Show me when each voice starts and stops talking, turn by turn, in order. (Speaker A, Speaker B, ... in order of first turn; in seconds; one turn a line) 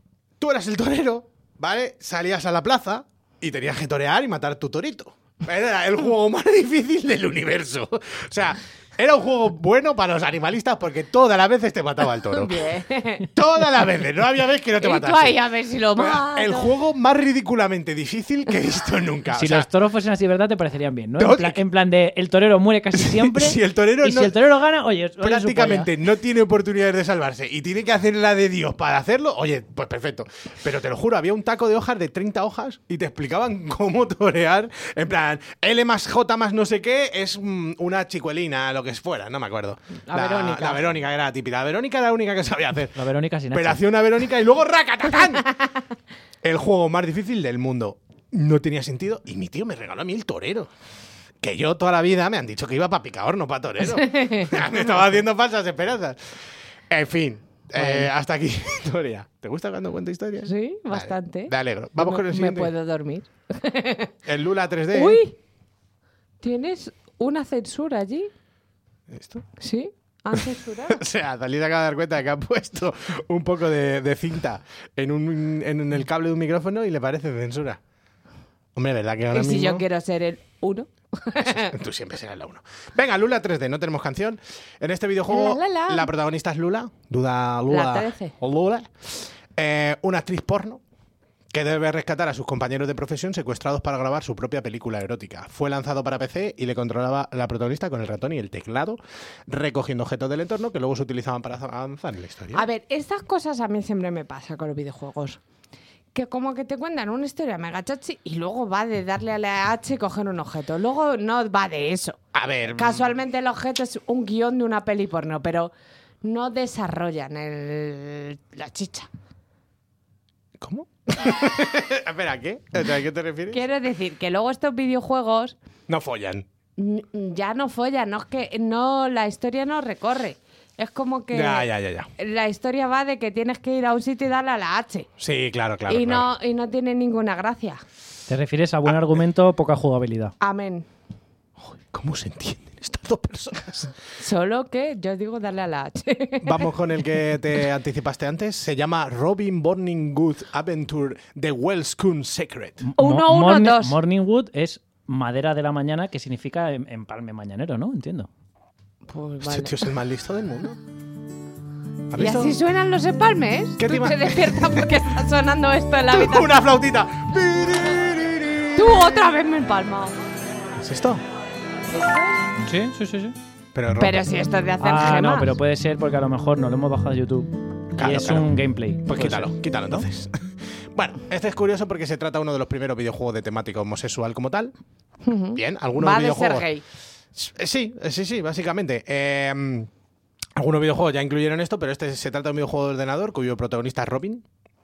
Speaker A: 0.4-12.7
Speaker B: 12.3-13.3
Speaker A: 13.2-15.4
Speaker B: 14.8-16.7
Speaker A: 15.9-19.7
Speaker C: 19.3-25.9
Speaker A: 21.2-21.6
Speaker A: 22.9-24.3
Speaker A: 25.2-43.0
Speaker B: 40.1-40.8
Speaker C: 43.0-43.8
Speaker A: 43.5-45.5
Speaker A: 46.4-50.7
Speaker A: 51.4-56.4
Speaker B: 53.8-54.9
Speaker A: 56.9-62.7
Speaker B: 57.8-58.1
Speaker B: 60.4-64.1
Speaker A: 64.2-65.2
Speaker B: 64.9-65.4
Speaker B: 66.4-68.3
Speaker A: 69.1-69.5
Speaker B: 69.6-71.0
Speaker A: 70.3-77.8
Speaker A: 78.7-79.8
Speaker B: 79.3-81.7
Speaker A: 81.4-90.8
Speaker B: 85.3-86.1
Speaker B: 87.7-88.3
Speaker A: 91.5-102.7
Speaker B: 102.5-105.4
Speaker B: 106.1-115.7
Speaker A: 112.3-113.1
Speaker B: 116.2-119.1
Speaker A: 120.6-123.6
Speaker B: 123.5-125.5
Speaker A: 125.9-126.5
Speaker B: 126.8-135.1
Speaker A: 131.3-132.1
Speaker A: 135.2-136.3
Speaker B: 135.9-137.8
Speaker C: 138.3-140.3
Speaker B: 140.4-140.9
Speaker A: 141.6-143.9
Speaker B: 144.2-146.7
Speaker A: 146.4-152.9
Speaker C: 152.8-158.3
Speaker B: 153.0-153.9
Speaker B: 159.1-159.8
Speaker A: 159.4-160.8
Speaker A: 162.1-162.6
Speaker B: 162.2-166.5
Speaker A: 163.8-165.0
Speaker A: 166.1-169.2
Speaker B: 168.8-170.3
Speaker A: 170.8-171.2
Speaker B: 171.9-172.5
Speaker C: 172.6-173.3
Speaker A: 173.7-174.3
Speaker B: 174.0-175.5
Speaker C: 174.8-180.0
Speaker A: 177.9-178.5
Speaker A: 179.1-184.7
Speaker B: 185.2-186.8
Speaker A: 185.5-186.7
Speaker A: 187.3-189.9
Speaker A: 190.6-194.4